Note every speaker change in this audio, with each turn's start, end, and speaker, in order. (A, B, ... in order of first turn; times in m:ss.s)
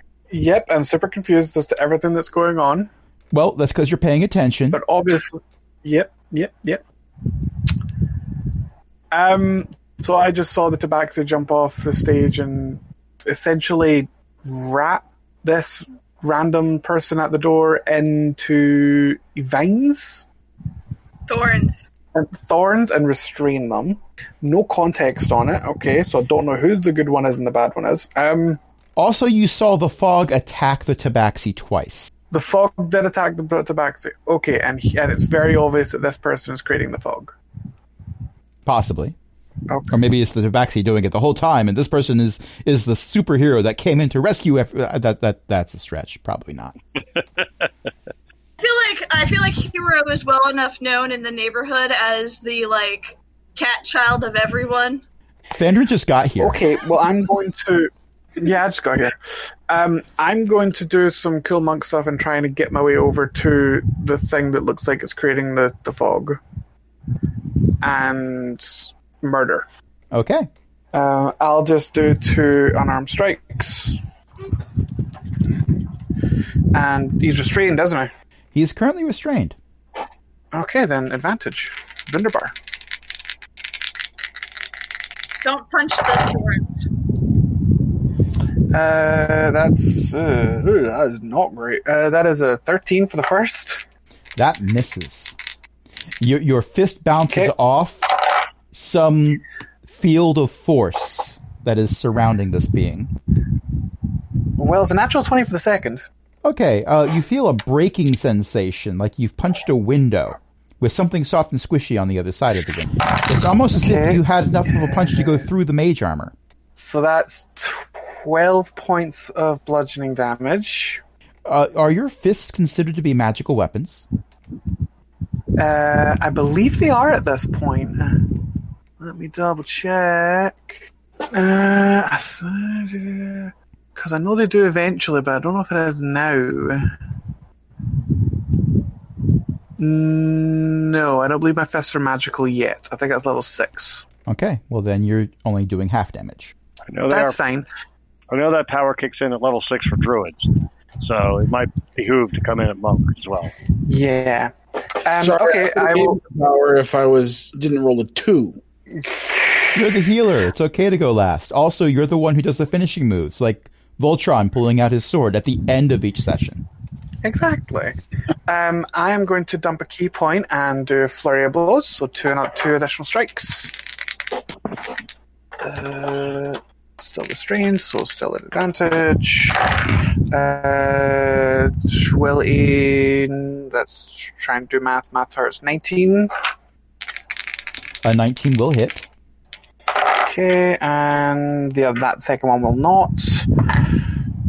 0:00.3-0:02.9 A
0:03.3-0:04.8 B
0:04.7-0:07.8 A
0:09.1-0:20.3 A
0:21.3-0:21.9 C
0:22.2-0:28.6 A
0:29.0-0:32.1 B
0:32.3-0:37.4 A
0:38.7-0:39.2 B
0:39.7-0:40.0 A
0:39.9-0:46.8 B
0:48.6-0:55.0 C
0:55.6-0:56.7 B
0:56.4-0:59.2 A
0:59.7-1:06.4 A
1:07.8-1:09.7 A
1:10.1-1:10.5 B
1:10.9-1:14.0 A
1:15.5-1:15.8 A
1:16.7-1:18.1 A
1:18.5-1:19.6 B
1:20.5-1:22.6 A
1:25.4-1:26.9 C
1:28.7-1:33.8 A
1:34.4-1:35.4 B
1:36.2-1:38.0 B
1:38.7-1:43.1 B
1:44.6-1:46.0 A
1:46.4-1:56.3 B
1:53.7-1:55.5 A
1:56.8-2:01.0 A
2:01.5-2:04.1 B
2:05.6-2:17.0 A
2:19.8-2:24.0 A
2:24.3-2:26.5 B
2:26.9-2:27.4 D
2:27.1-2:27.7 A
2:28.3-2:30.5 D
2:31.0-2:33.6 D
2:33.8-2:36.2 A
2:35.2-2:38.6 E
2:39.0-2:39.8 A
2:39.7-2:46.6 B
2:47.2-2:53.8 A
2:55.6-3:06.3 A
3:08.0-3:09.1 B
3:09.9-3:14.0 A